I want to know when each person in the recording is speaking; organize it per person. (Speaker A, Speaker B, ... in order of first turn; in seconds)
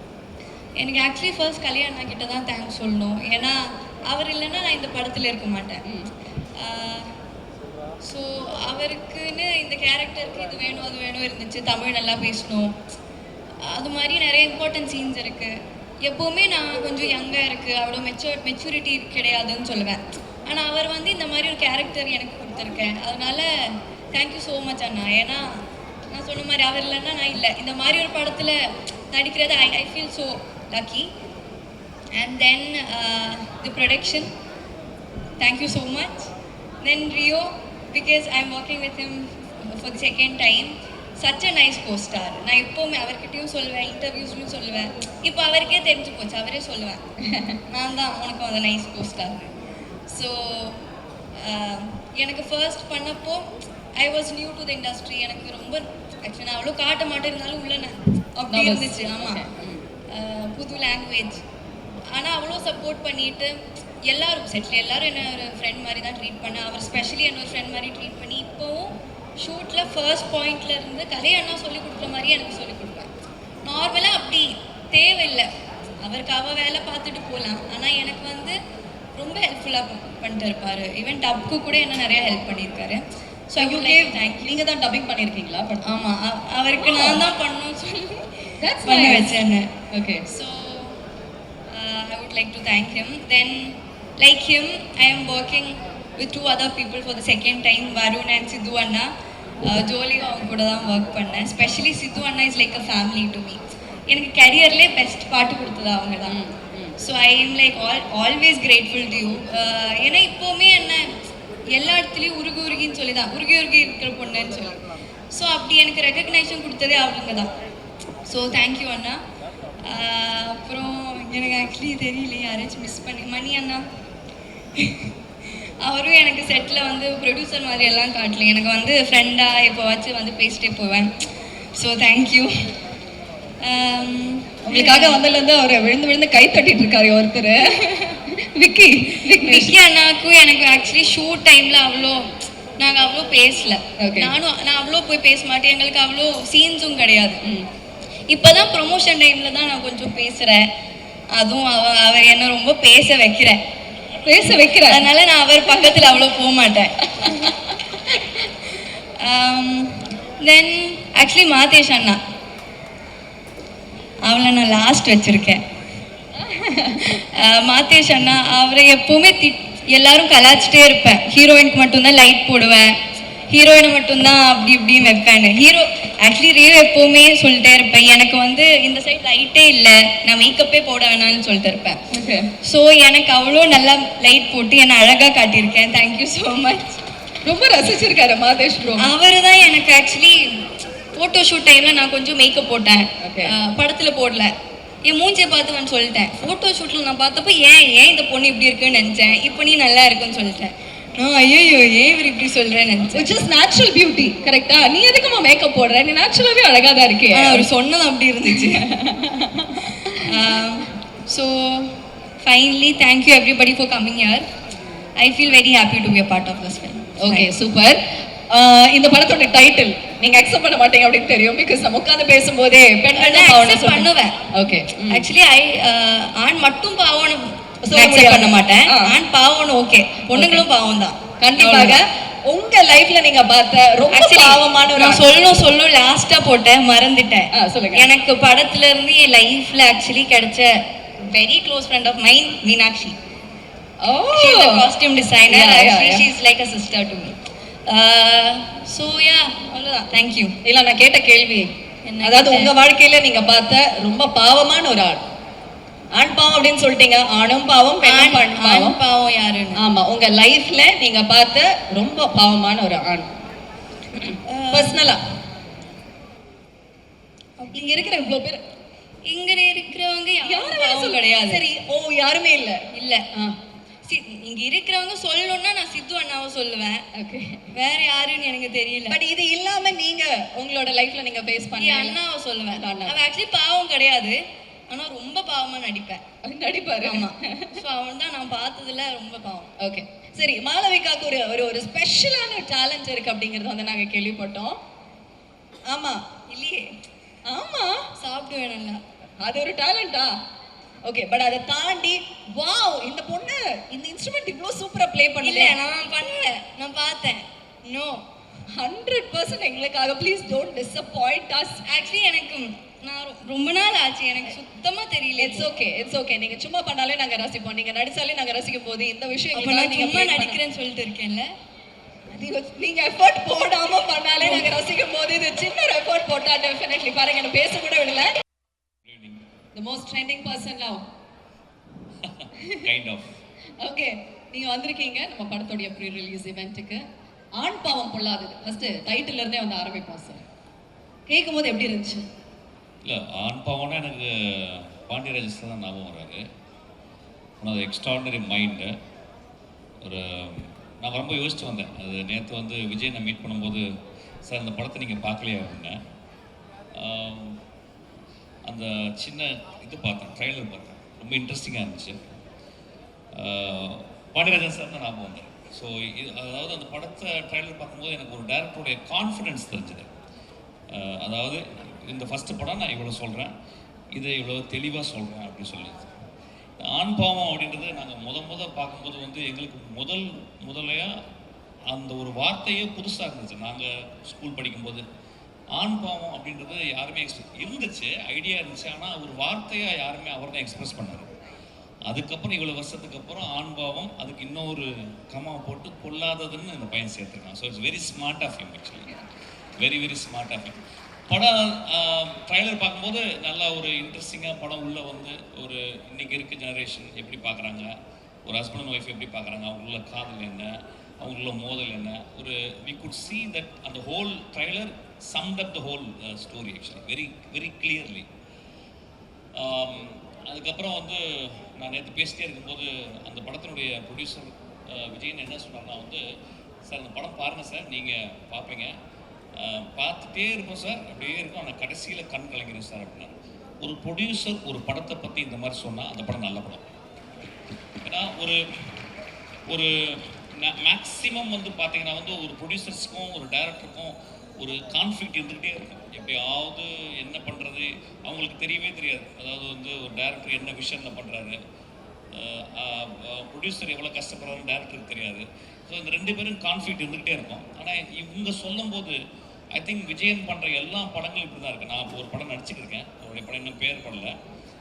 Speaker A: 0.8-5.9, 6.5-7.1, 8.0-12.8, 13.6-31.1, 32.1-34.3, 35.4-47.1, 47.6-49.5, 50.1-50.8, 51.3-59.4, 60.1-61.4, 62.1-73.1, 73.6-78.6, 79.1-84.5, 85.8-89.7, 90.3-91.0, 91.7-99.1, 99.6-106.4, 107.0-111.1, 111.7-117.5, 118.2-119.2, 119.8-123.8, 124.8-131.1, 131.7-132.5, 133.6-135.2, 139.4-147.4, 148.3-150.7, 151.3-153.6, 154.4-162.2, 164.2-165.6, 166.6-172.9, 173.5-182.0, 182.6-187.0, 189.0-194.5, 195.0-203.2, 207.3-208.9, 210.2-214.4, 215.1-217.5, 223.1-224.4, 225.1-232.0, 234.1-243.2, 244.3-250.6, 252.0-252.7, 258.0-259.8, 264.4-265.1, 269.2-271.6, 272.9-273.2, 274.0-277.0, 277.7-279.2, 281.7-286.2, 287.0-289.7, 296.4-296.9, 298.1-299.0, 305.4-308.2, 311.8-315.7, 319.5-321.5, 324.4-324.7
Speaker B: 58.5-59.8, 83.6-85.9, 86.8-87.2, 88.6-89.4, 89.9-90.2, 106.2-107.0, 134.6-139.8, 144.0-144.3, 147.4-147.7, 154.2-155.1, 155.7-156.1, 182.1-182.5, 187.4-189.1, 193.2-193.6, 203.1-207.7, 208.5-210.2, 217.2-225.3, 227.8-229.2, 230.3-230.7, 231.4-235.5, 237.5-238.1, 244.0-244.9, 245.5-246.3, 250.6-255.2, 256.1-259.0, 259.7-263.3, 264.1-265.2, 267.6-268.6, 270.4-273.6, 277.1-277.7, 279.1-282.2, 282.7-283.2, 286.4-287.8, 289.8-294.8, 295.9-296.3, 297.4-298.1, 299.4-300.4, 301.0-305.8, 308.7-311.9, 315.4-320.6, 322.3-328.4, 329.7-331.0, 333.8-340.4, 341.3-342.3
Speaker C: 329.0-329.4, 332.2-333.4, 343.0-346.4, 347.6-348.9, 350.0-353.9, 354.4-356.0, 356.9-357.6, 358.6-362.2, 363.3-370.1, 370.9-373.5, 374.1-376.1, 376.8-381.1, 381.9-385.0, 385.7-391.3, 392.1-399.2, 399.8-400.8, 401.3-407.9, 408.4-418.3, 419.5-426.2, 426.8-428.9, 429.6-436.8, 438.0-439.0, 439.7-451.6, 452.3-459.2, 459.7-464.3